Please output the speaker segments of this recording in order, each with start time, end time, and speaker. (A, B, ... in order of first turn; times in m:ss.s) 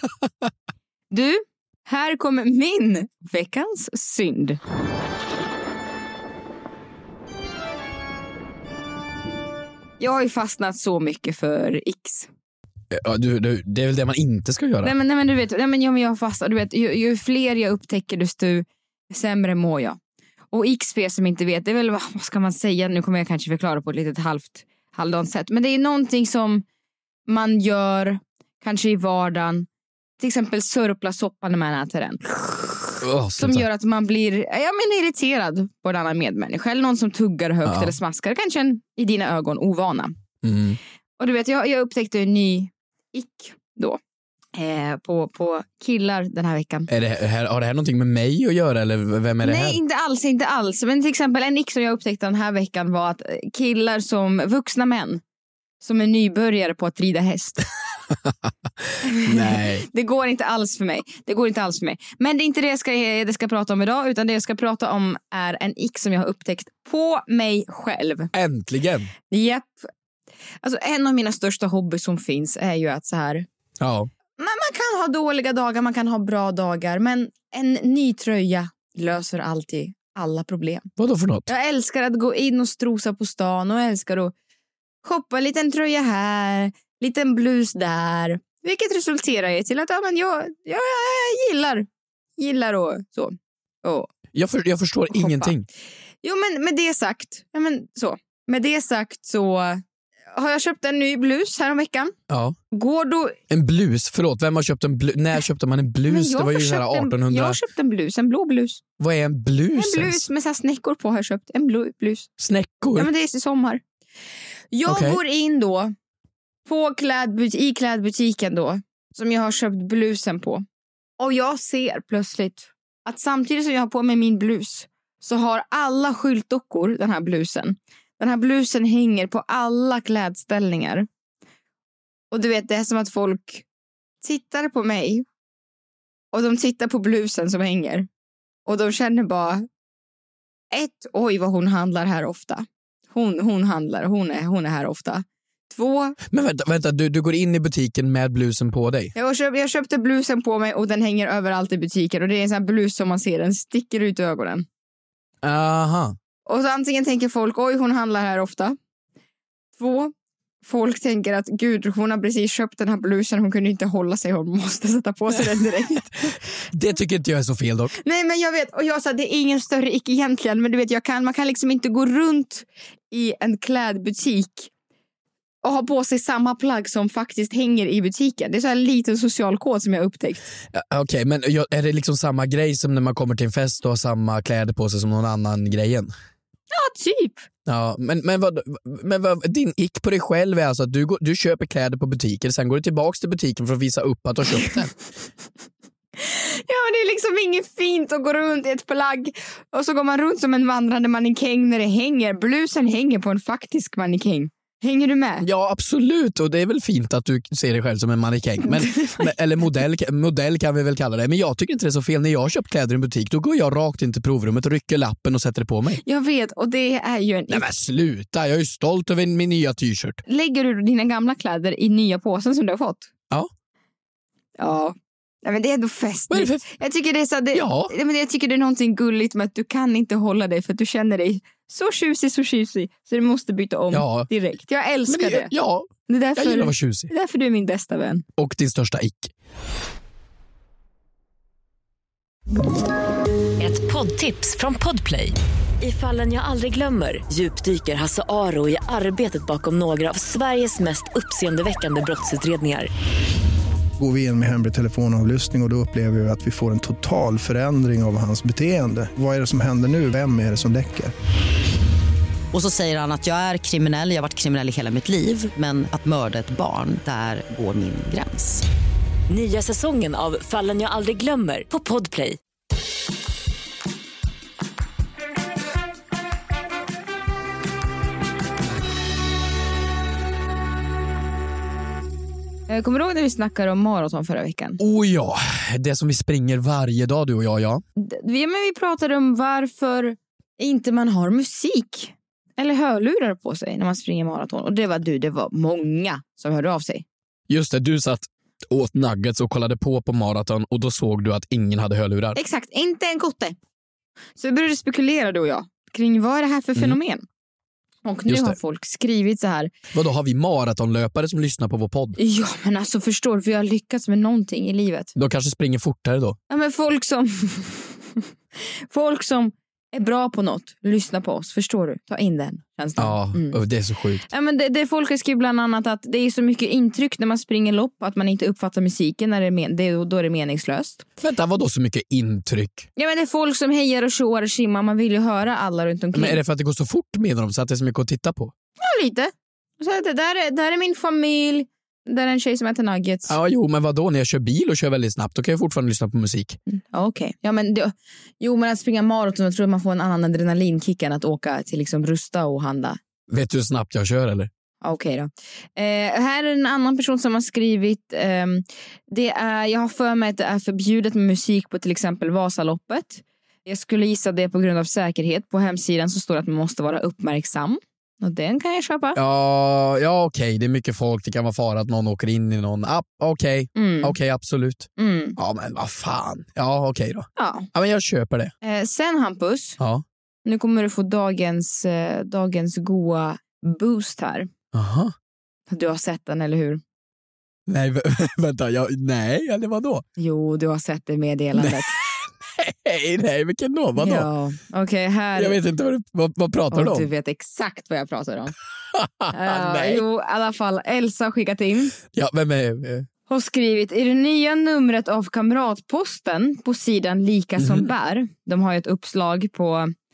0:01.1-0:04.6 A
0:10.0-0:12.3 A
0:12.9-0:14.9 B
0:14.8-0:20.0 A
0:20.5-0:26.6 A
0:27.3-0:29.7 A
0:30.2-0:40.2 A
0:33.0-0:33.6 B
0:37.6-0:37.9 B
0:40.4-0:40.8 B
0:41.2-0:44.0 A
0:44.6-0:46.9 A
0:46.9-0:49.8 B
0:49.4-0:55.2 A
0:55.8-0:57.6 A
0:58.2-0:59.9 B
0:59.0-1:08.3 A
1:08.3-1:09.1 B
1:09.3-1:09.9 A
1:10.6-1:13.5 A
1:13.8-1:14.1 B
1:14.4-1:20.9 A
1:21.0-1:21.5 B
1:21.5-1:24.3 A
1:25.0-1:34.1 A
1:34.3-1:35.7 B
1:35.1-1:35.5 A
1:36.2-1:42.2 A
1:42.3-1:42.6 B
1:42.7-1:43.4 A
1:43.5-1:47.6 B
1:46.1-1:48.8 A
1:49.0-1:50.3 B
1:49.8-1:52.3 A
1:52.4-1:53.1 B
1:53.0-1:53.8 A
1:54.7-1:56.0 A
1:54.9-1:55.2 B
1:56.7-2:00.6 A
2:01.2-2:11.1 A
2:12.3-2:13.6 A
2:14.2-2:15.3 A
2:16.3-2:18.1 A
2:18.7-2:19.7 A
2:20.7-2:26.2 A
2:26.3-2:29.1 B
2:29.2-2:34.7 A
2:35.4-2:36.2 B
2:36.5-2:38.8 A
2:39.8-2:40.1 A
2:40.6-2:46.4 A
2:46.7-2:48.0 B
2:48.0-2:54.7 A
2:55.6-3:00.5 A
3:00.7-3:06.1 B
3:06.7-3:07.5 A
3:07.7-3:14.9 B
3:16.2-3:25.5 A
3:25.4-3:36.0 B
3:28.7-3:29.2 A
3:36.0-3:37.7 A
3:37.5-3:40.2 B
3:40.3-3:43.1 A
3:44.6-3:55.5 A
3:46.3-3:46.6 B
3:47.5-3:47.9 B
3:53.9-3:54.3 B
3:55.1-3:57.1 B
3:56.1-3:58.2 A
3:58.4-3:59.3 B
4:03.6-4:12.9 C
4:14.0-4:21.1 D
4:22.5-4:28.6 E
4:29.3-4:32.4 C
4:42.7-4:44.8 A
4:44.8-4:47.8 B
4:48.0-4:57.0 A
4:57.5-5:02.4 B
5:02.4-5:03.6 A
5:04.4-5:07.2 A
5:08.0-5:09.7 A
5:08.3-5:08.6 B
5:09.9-5:12.2 B
5:12.2-5:15.1 A
5:15.2-5:16.4 B
5:16.5-5:18.2 A
5:18.9-5:23.6 A
5:23.0-5:24.2 B
5:24.3-5:31.0 A
5:31.2-5:32.9 B
5:33.0-5:36.4 A
5:36.1-5:38.5 B
5:38.8-5:43.4 A
5:43.3-5:46.6 B
5:46.7-5:53.0 A
5:53.3-5:54.5 B
5:54.8-6:09.2 A
6:09.2-6:18.5 B
6:13.8-6:14.2 A
6:15.0-6:15.4 A
6:17.4-6:17.7 A
6:18.6-6:19.8 A
6:20.4-6:24.5 A
6:24.7-6:25.1 B
6:25.7-6:26.8 A
6:27.7-6:30.0 B
6:30.2-6:31.9 A
6:31.6-6:34.3 B
6:34.0-6:35.6 A
6:35.4-6:37.1 B
6:36.7-6:38.6 A
6:38.9-6:40.0 B
6:39.3-6:42.0 A
6:42.1-6:43.1 B
6:43.3-6:49.9 A
6:47.6-6:47.9 B